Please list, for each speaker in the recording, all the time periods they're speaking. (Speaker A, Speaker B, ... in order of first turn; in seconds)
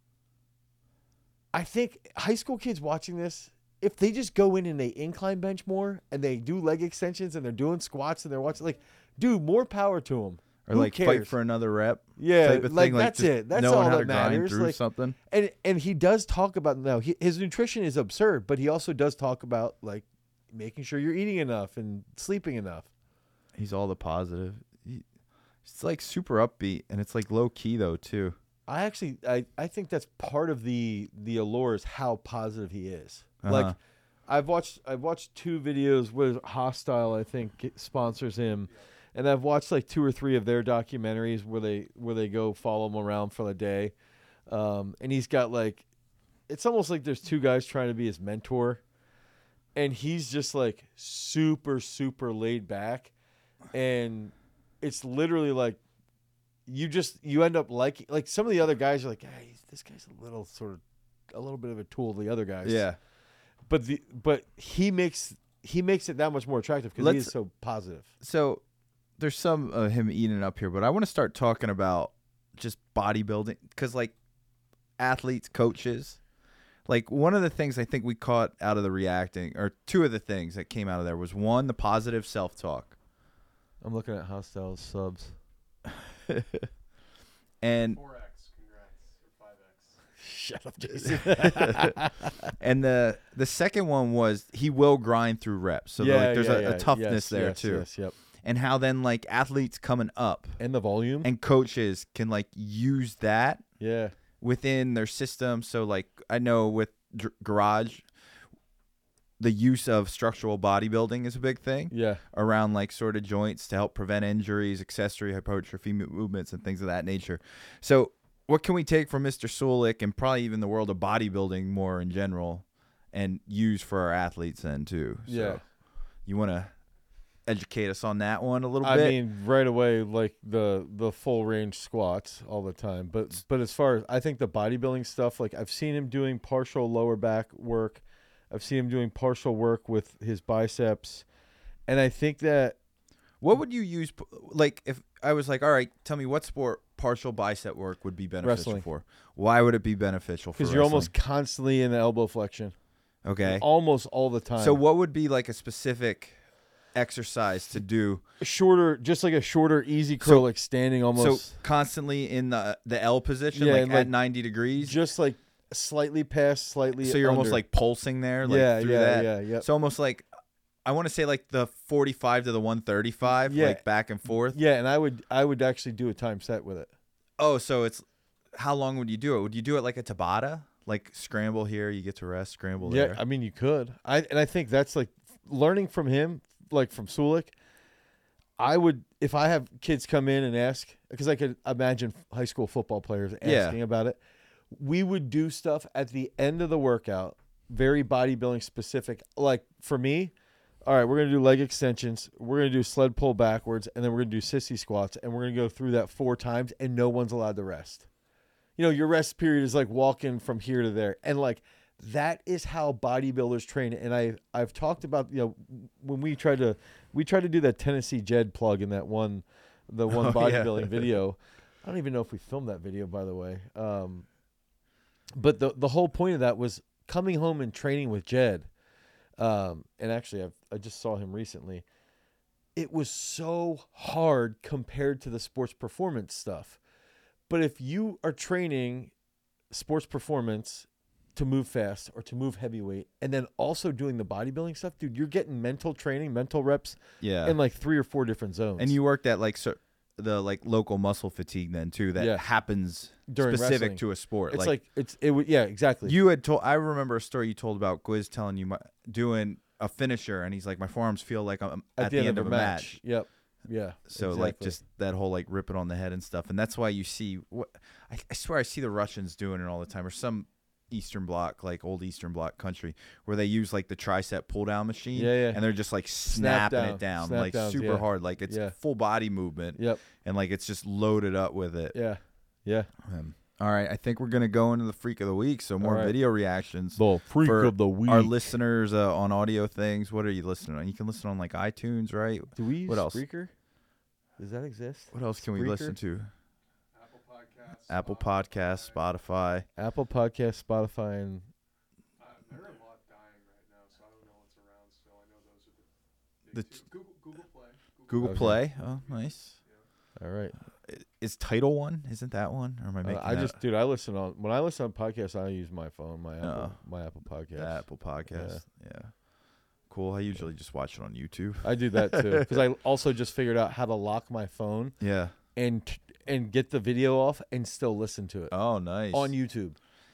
Speaker A: 1.5-11.3, 12.2-22.9, 28.7-33.8, 34.3-43.9, 44.5-45.8, 46.5-48.8, 49.7-53.1, 53.7-55.8, 56.6-62.9, 63.7-68.1, 83.8-85.4, 90.2-92.3, 96.0-98.1, 100.6-101.3, 103.8-104.1, 111.9-112.2, 125.2-125.6, 128.8-141.3, 141.9-142.8, 148.4-148.8, 150.6-152.7, 153.4-154.8, 158.4-161.6, 163.5-164.1, 164.7-167.6, 168.4-169.7, 173.4-173.8, 174.5-176.9, 182.8-187.5, 188.6-194.2, 194.7-200.3, 200.8-208.1, 208.8-224.3, 225.3-228.7, 229.4-231.8, 232.8-236.8, 237.5-239.1, 239.7-248.9, 252.2-252.4, 253.3-256.1, 262.0-264.8, 275.1-275.6, 276.2-278.8, 279.7-280.0, 281.9-282.9, 285.8-286.2, 286.9-288.5, 292.6-293.5, 294.4-295.9, 299.8-301.5, 308.2-308.6, 310.1-310.6, 313.0-318.6, 321.6-328.6, 329.1-329.8
Speaker B: 10.7-15.2, 23.5-25.0, 25.6-28.4, 33.4-33.8, 62.6-63.0, 67.0-67.3, 68.2-68.6, 69.2-74.2, 75.0-76.2, 76.8-83.0, 86.3-86.7, 87.6-88.0, 91.3-91.9, 92.6-100.6, 101.2-103.6, 104.4-108.1, 109.4-125.7, 126.2-126.7, 127.4-129.2, 143.4-151.1, 153.2-153.6, 154.6-156.4, 156.9-158.2, 160.2-160.5, 161.1-165.0, 167.0-170.3, 170.8-174.6, 177.4-183.2, 193.4-193.8, 220.1-221.0, 247.2-247.6, 248.8-254.7, 256.1-263.0, 264.1-281.9, 283.0-293.2, 295.1-296.3, 297.9-299.6, 308.1-309.5, 310.9-313.6, 316.4-316.8, 317.5-319.2, 319.9-322.6, 325.0-325.3, 328.5-329.3
Speaker C: 87.7-90.1, 296.9-299.1, 302.2-309.9